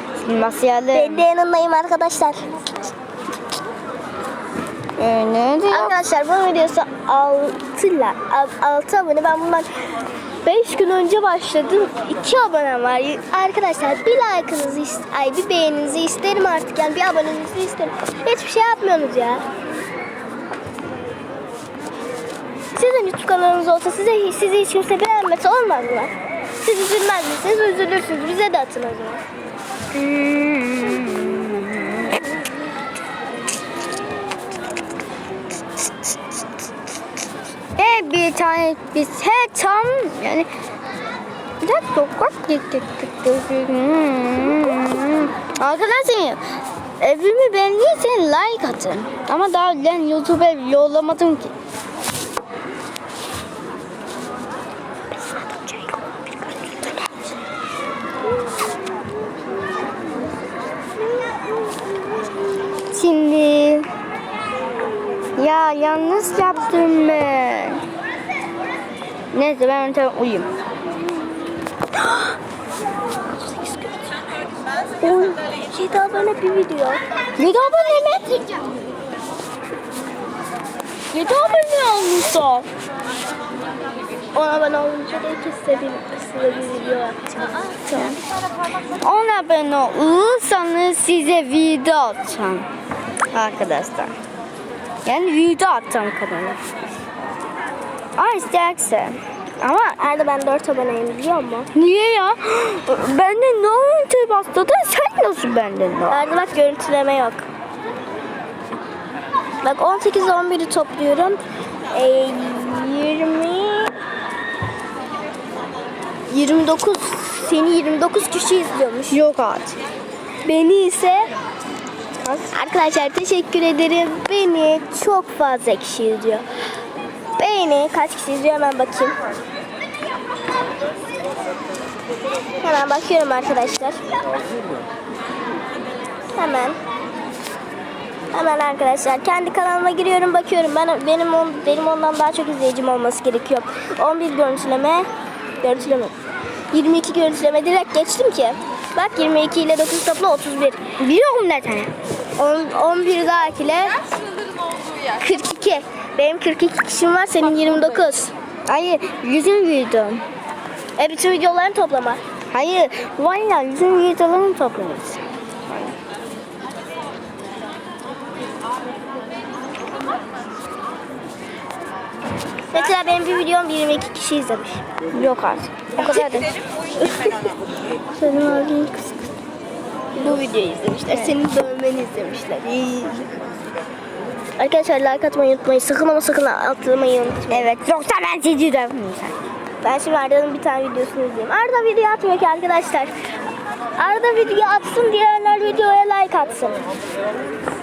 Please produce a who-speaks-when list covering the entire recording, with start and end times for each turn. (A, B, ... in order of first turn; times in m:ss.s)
0:00.2-0:01.2 A
0:00.9-0:02.4 B
0:05.0-0:05.9 A
0:05.7-0:09.7 B
0:10.4-0:19.4 B
0:22.7-0:29.2 B
0:29.9-0:32.2 A
0:37.8-0:40.5 A
0:41.6-0:46.4 A
0:47.0-0:51.5 A
1:02.9-1:03.9 A
1:05.4-1:07.8 A
1:09.3-1:10.5 A
1:13.4-1:14.0 B
1:15.0-1:17.0 B
1:17.4-1:18.4 A
1:21.1-1:22.7 A
1:24.3-1:27.9 B
1:27.9-1:28.2 A
1:29.0-1:32.7 A
1:33.3-1:34.1 A
1:35.0-1:36.6 A
1:38.2-1:39.7 A
1:39.6-1:41.7 B
1:41.7-1:46.2 A
1:46.1-1:47.4 B
1:49.6-1:51.4 B
1:51.9-1:53.9 B
1:56.3-1:59.2 B
1:59.1-1:59.8 A
2:00.4-2:01.3 B
2:02.2-2:02.5 A
2:02.5-2:06.4 B
2:07.4-2:09.1 B
2:12.6-2:14.0 B
2:16.3-2:16.8 B
2:18.3-2:25.1 B
2:25.6-2:26.1 B
2:26.7-2:30.8 B
2:31.0-2:31.9 A
2:32.4-2:34.1 B
2:35.1-2:38.3 B
2:38.7-2:40.2 A
2:41.0-2:42.2 B
2:42.5-2:45.2 A
2:52.7-2:54.8 B
2:55.1-2:56.5 A
2:58.2-2:59.1 A
3:00.1-3:03.3 B
3:04.6-3:07.7 B
3:07.5-3:09.4 A
3:09.8-3:13.1 B
3:14.0-3:16.8 B